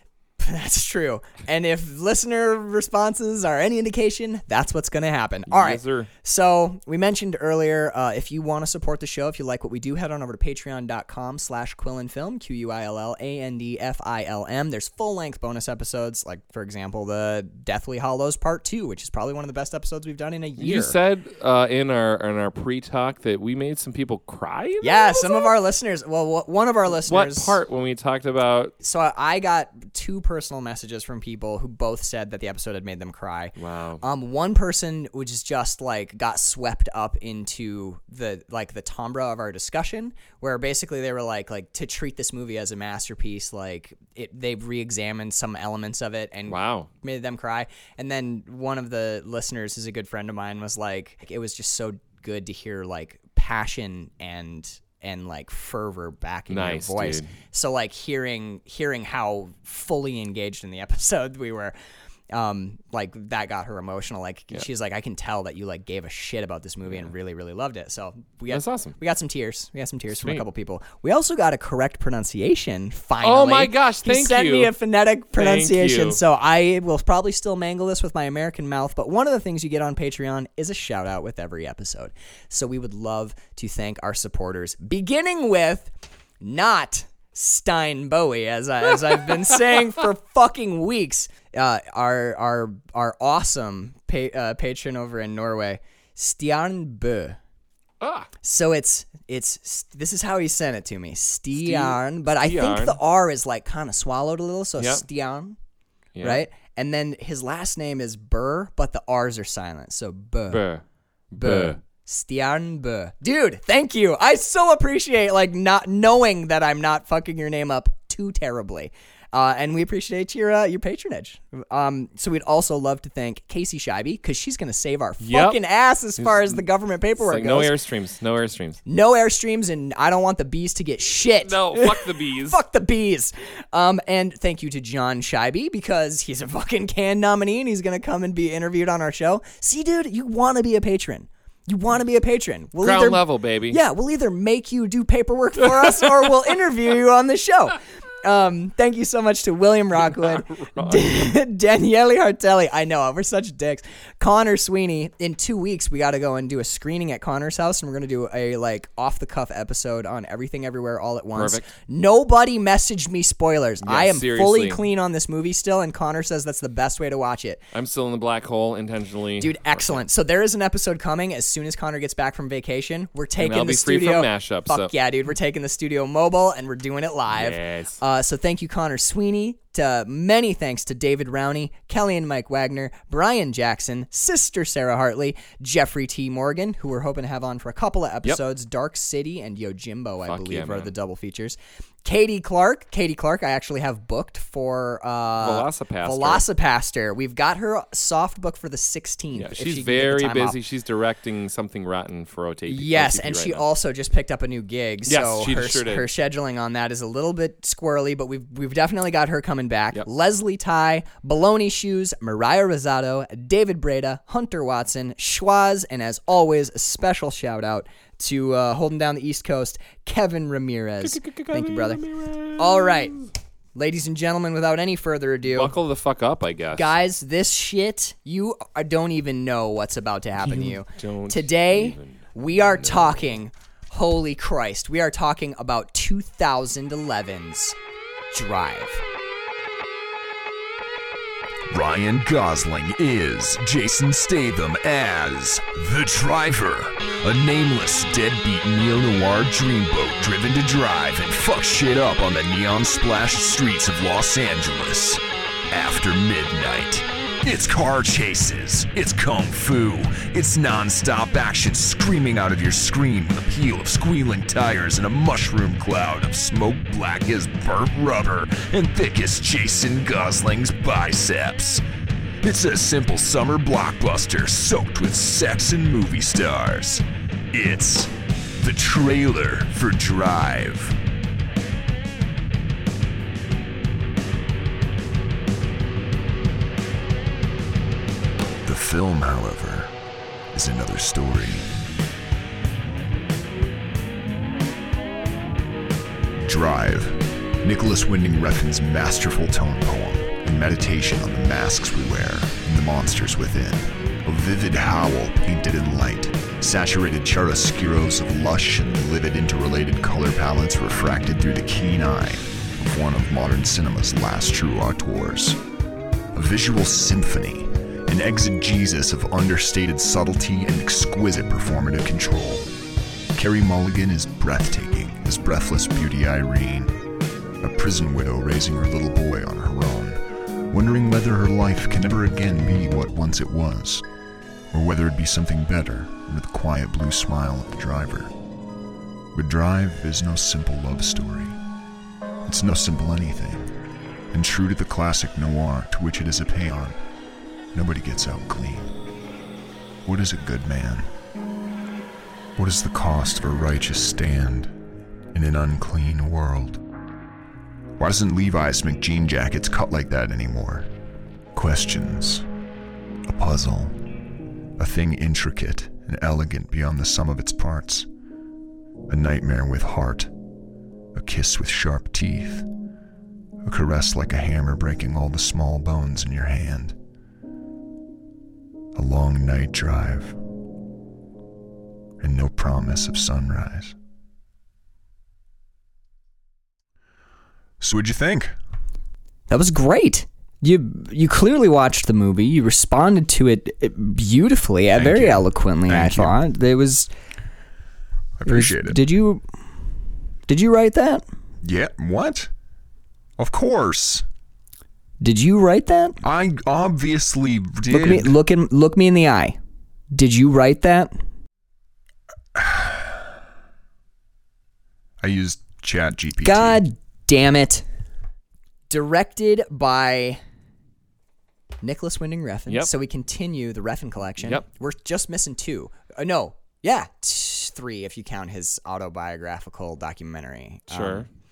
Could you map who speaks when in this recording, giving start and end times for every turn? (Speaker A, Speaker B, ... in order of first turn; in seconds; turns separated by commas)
Speaker A: 0.4-20.9, Speaker B: 5.5-6.1, Speaker B: 20.6-25.5, Speaker A: 24.8-27.6, Speaker B: 26.9-28.7, Speaker A: 28.8-61.7, Speaker B: 33.6-34.0, Speaker B: 46.5-46.9, Speaker B: 56.5-57.3, Speaker A: 62.3-97.4, Speaker B: 68.5-69.0, Speaker B: 70.1-70.4, Speaker B: 73.2-74.7, Speaker B: 75.3-76.2, Speaker B: 98.0-98.3, Speaker A: 98.4-105.5, Speaker B: 101.5-103.0, Speaker B: 104.8-105.0, Speaker B: 106.2-106.4, Speaker A: 106.2-110.6, Speaker B: 110.5-110.8, Speaker B: 111.3-111.8, Speaker A: 111.3-127.7, Speaker B: 125.2-125.6, Speaker B: 126.2-126.6, Speaker B: 127.2-128.8, Speaker A: 128.8-167.7, Speaker B: 131.4-132.6, Speaker B: 142.8-143.8, Speaker B: 145.6-146.2, Speaker B: 150.0-151.1, Speaker B: 161.3-161.7, Speaker B: 163.8-164.8, Speaker B: 167.7-170.0, Speaker A: 169.4-200.6, Speaker B: 173.4-174.9, Speaker B: 177.3-178.0, Speaker B: 190.3-190.9, Speaker B: 195.4-196.4, Speaker B: 199.3-203.6, Speaker A: 202.7-222.0, Speaker B: 205.1-206.1, Speaker B: 221.0-223.3, Speaker A: 222.6-223.2, Speaker A: 223.8-225.7, Speaker B: 225.4-226.9, Speaker A: 226.7-237.8, Speaker B: 230.4-233.2, Speaker A: 238.3-239.0, Speaker C: 241.7-271.8, Speaker C: 272.4-281.0, Speaker C: 288.6-289.9, Speaker C: 290.5-291.7, Speaker C: 296.4-315.6, Speaker C: 316.3-322.7, Speaker C: 323.3-326.9, Speaker C: 327.6-334.0, Speaker C: 334.7-338.3, Speaker C: 339.3-341.6, Speaker C: 342.4-343.7, Speaker C: 344.3-347.0, Speaker C: 347.7-348.9, Speaker C: 350.0-351.1, Speaker C: 352.6-354.7, Speaker C: 355.3-356.8, Speaker C: 358.0-360.9, Speaker C: 361.5-362.4, Speaker C: 363.3-364.0, Speaker C: 364.8-368.1, Speaker C: 369.1-370.3, Speaker C: 371.1-372.7, Speaker C: 373.6-376.9, Speaker C: 378.9-380.4, Speaker C: 382.2-383.9, Speaker C: 387.8-388.5, Speaker A: 389.5-397.1, Speaker C: 394.9-396.4, Speaker C: 398.4-399.0, Speaker A: 398.4-399.4, Speaker A: 400.5-401.2, Speaker C: 401.6-402.5, Speaker C: 403.4-404.2, Speaker A: 405.2-406.2, Speaker C: 406.2-408.4, Speaker A: 407.9-409.6, Speaker A: 410.1-411.1, Speaker C: 412.5-413.3, Speaker C: 415.2-416.8, Speaker A: 416.4-417.8, Speaker A: 418.9-420.4, Speaker A: 421.8-431.3, Speaker B: 430.9-431.3